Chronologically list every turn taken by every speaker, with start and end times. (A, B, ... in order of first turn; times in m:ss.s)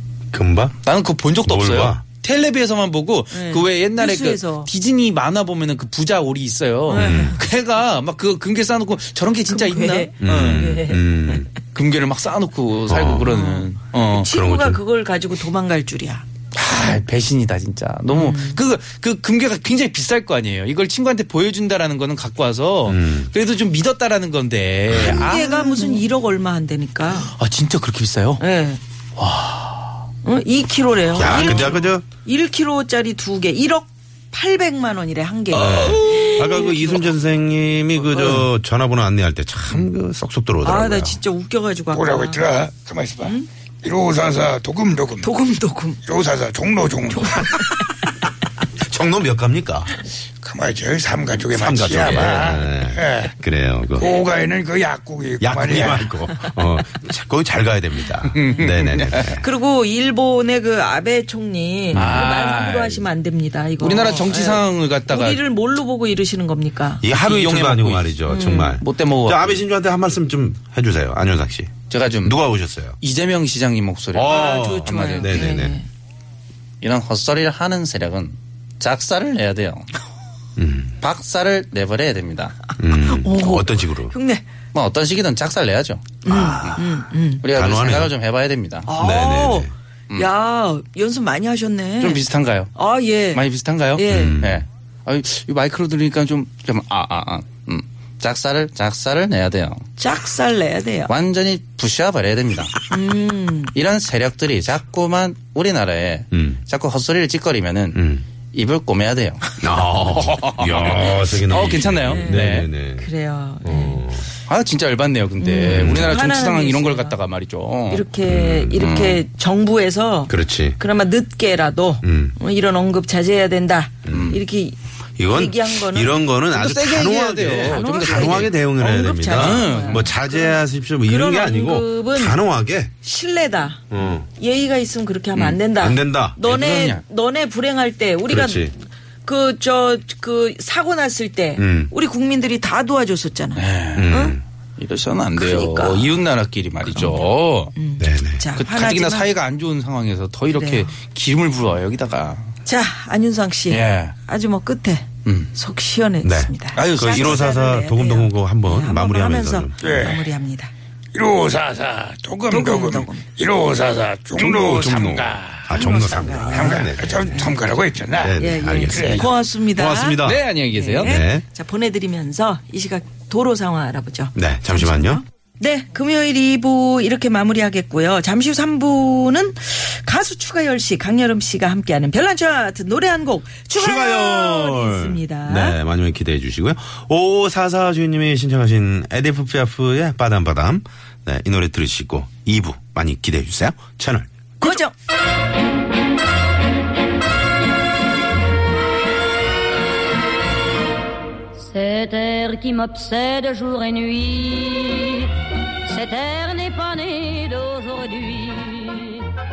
0:00.3-0:00.8 A
0:00.8-0:10.8 B
0:01.4-0:02.0 A
0:03.3-0:04.7 C
0:06.9-0:07.4 C
0:06.9-0:07.4 A
0:09.5-0:11.4 C
0:10.2-0:11.5 A
0:11.7-0:14.3 B
0:12.9-0:13.3 A
0:13.2-0:16.2 C
0:14.3-0:14.8 A
0:16.5-0:26.0 B
0:18.1-0:18.6 C
0:22.8-0:23.3 A
0:24.9-0:25.3 A
0:24.9-0:27.3 C
0:27.3-0:28.4 B
0:28.4-0:28.8 C
0:29.2-0:29.9 B
0:30.2-0:37.1 C
0:31.1-0:32.0 A
0:31.2-0:31.7 B
0:35.5-0:41.2 A
0:35.8-0:36.3 B
0:38.1-0:38.4 B
0:40.6-0:42.5 C
0:41.9-0:45.3 D
0:45.2-0:46.0 C
0:46.1-0:47.6 D
0:47.1-0:48.1 C
0:48.8-0:49.9 A
0:50.4-0:53.3 D
0:51.6-0:54.1 A
0:54.0-0:56.0 D
0:55.4-0:59.4 A
0:58.3-0:59.3 B
0:59.2-1:07.0 C
1:01.9-1:03.0 B
1:01.9-1:02.2 A
1:03.8-1:05.4 B
1:07.0-1:13.0 A
1:07.1-1:09.6 B
1:08.2-1:08.8 C
1:11.9-1:12.4 B
1:13.0-1:15.6 B
1:14.1-1:15.8 A
1:14.2-1:15.9 C
1:16.8-1:19.9 B
1:20.6-1:20.9 A
1:21.0-1:22.5 B
1:22.8-1:24.1 A
1:22.9-1:24.5 C
1:24.7-1:28.9 B
1:26.2-1:27.4 C
1:26.3-1:26.7 A
1:27.5-1:28.1 A
1:28.8-1:32.2 C
1:29.0-1:29.7 A
1:32.0-1:32.7 B
1:32.7-1:34.4 C
1:33.3-1:39.8 B
1:34.1-1:34.6 A
1:40.0-1:41.1 C
1:41.1-1:42.8 B
1:42.9-1:43.7 C
1:43.7-1:49.4 B
1:46.3-1:46.6 A
1:47.9-1:48.2 A
1:49.6-1:53.1 A
1:50.1-1:52.7 B
1:52.0-1:54.0 C
1:53.6-1:54.2 A
1:54.5-1:58.1 B
1:55.4-1:57.2 C
1:55.7-1:56.2 A
1:57.9-2:06.2 C
1:58.2-1:58.9 A
1:58.8-1:59.2 B
2:00.3-2:00.8 A
2:02.0-2:02.3 A
2:04.1-2:04.4 A
2:04.1-2:04.4 B
2:05.2-2:12.9 A
2:06.5-2:08.5 B
2:07.4-2:12.4 C
2:09.4-2:10.1 B
2:13.0-2:18.7 C
2:13.9-2:14.3 A
2:15.8-2:16.4 A
2:16.4-2:17.0 B
2:18.3-2:18.7 A
2:19.2-2:24.4 C
2:21.6-2:21.9 A
2:23.6-2:27.7 B
2:24.0-2:24.4 A
2:25.4-2:26.2 C
2:26.8-2:29.4 C
2:28.0-2:28.4 A
2:28.6-2:32.5 B
2:30.5-2:30.9 C
2:32.6-2:40.7 C
2:33.7-2:34.1 B
2:36.2-2:39.9 A
2:36.7-2:37.4 B
2:39.8-2:40.2 D
2:41.1-2:45.6 D
2:42.5-2:43.2 C
2:44.4-2:47.5 A
2:45.7-2:47.6 C
2:46.5-2:49.3 D
2:48.2-2:51.4 A
2:48.4-3:05.8 C
2:50.2-2:51.2 B
2:54.4-2:55.2 A
3:03.8-3:14.8 A
3:14.6-3:14.9 C
3:21.7-3:25.3 E
3:25.9-3:29.2 E